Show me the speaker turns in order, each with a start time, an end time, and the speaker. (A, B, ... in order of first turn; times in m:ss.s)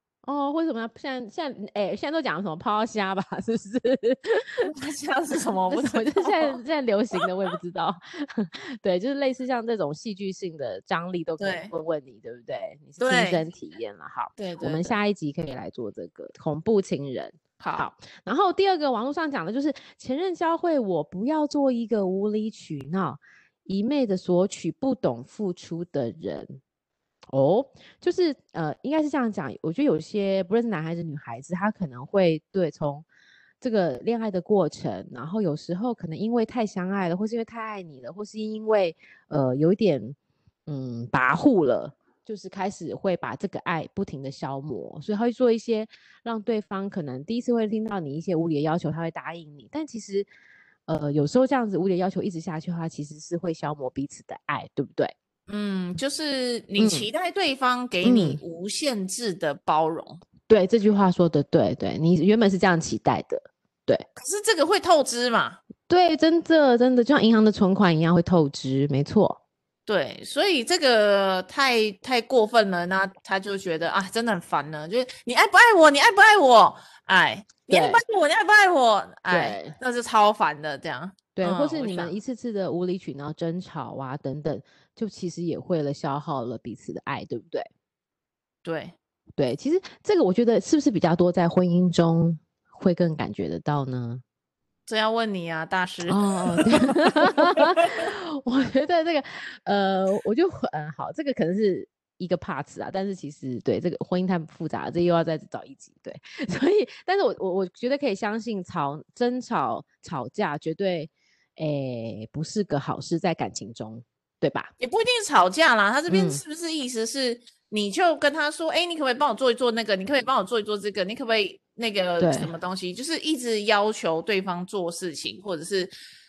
0:00.2-0:04.7 A
0:04.7-0:06.6 B
0:05.7-0:26.6 A
0:11.4-0:11.7 B
0:13.0-0:13.4 B
0:14.4-0:15.0 B
0:17.6-0:17.8 B
0:27.3-0:33.0 A
0:33.6-0:40.2 A
0:40.7-0:50.3 A
0:50.9-0:55.1 A
0:55.5-1:00.2 B
0:56.8-0:57.1 A
0:58.0-0:58.4 A
1:00.5-1:04.0 A
1:04.2-1:05.6 B
1:05.9-1:09.4 A
1:09.8-1:22.1 B
1:17.7-1:18.0 A
1:19.3-1:19.8 A
1:21.3-1:27.7 A
1:28.6-1:28.9 B
1:29.4-1:34.2 A
1:34.9-1:38.0 B
1:36.1-1:54.7 A
1:54.8-2:05.9 B
1:56.1-1:56.4 A
2:02.2-2:02.5 A